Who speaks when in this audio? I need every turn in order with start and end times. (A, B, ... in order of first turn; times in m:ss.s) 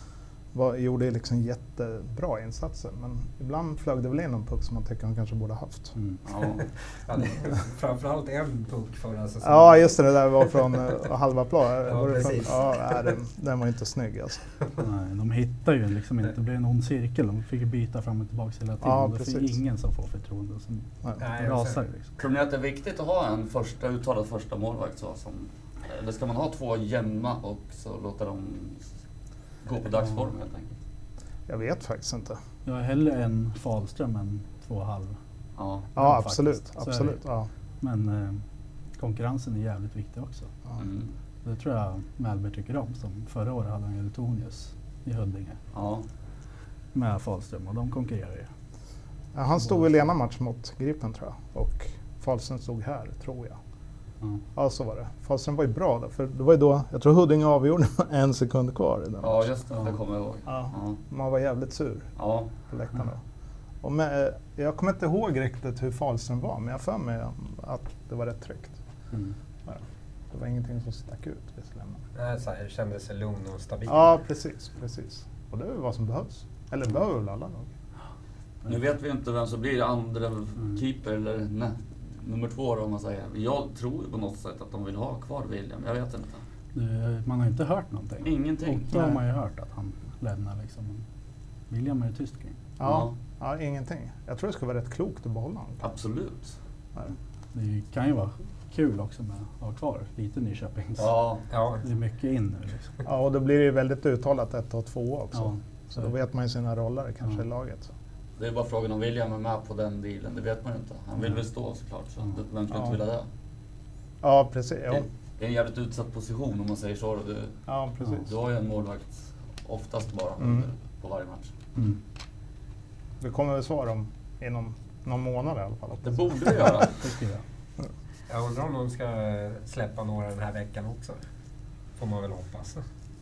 0:00.5-0:06.0 A
0:06.2-0:06.7 B
0:06.9-0:10.0 C
0:09.4-0:14.5 A
0:11.8-0:12.8 C
0:14.8-0:22.1 D
0:18.8-0:19.6 A
0:21.2-0:21.8 C
0:22.2-0:28.9 B
0:29.6-0:30.7 B
0:31.5-0:32.4 A
0:32.6-0:35.2 D
0:35.6-0:35.9 B
0:36.0-0:37.5 A
0:36.0-0:37.2 D
0:37.8-0:38.4 D
0:39.0-0:40.5 D
0:40.8-0:41.1 B
0:41.4-0:45.6 D
0:45.7-0:46.0 B
0:46.9-0:48.5 D
0:49.3-0:53.6 A
0:54.6-0:59.5 A
0:59.2-1:01.0 B
1:00.5-1:02.1 A
1:02.2-1:02.5 B
1:02.7-1:03.2 A
1:03.8-1:08.8 A
1:10.3-1:12.0 A
1:12.2-1:14.2 C
1:13.9-1:17.7 A
1:18.7-1:26.4 B
1:26.7-1:31.0 D
1:28.2-1:29.1 B
1:31.7-1:32.6 D
1:32.8-1:35.8 A
1:32.8-1:33.1 B
1:35.8-1:36.6 B
1:37.5-1:41.1 D
1:41.0-1:41.4 B
1:41.5-1:41.8 C
1:41.8-1:42.9 D
1:43.1-1:47.9 A
1:45.4-1:45.6 D
1:48.4-1:53.3 B
1:54.2-1:55.1 A
1:55.0-1:57.6 B
1:57.7-1:58.3 A
1:58.2-2:01.5 B
2:00.4-2:00.7 A
2:03.2-2:06.7 A
2:06.0-2:07.0 B
2:07.0-2:07.4 D
2:08.3-2:11.2 C
2:12.0-2:12.8 C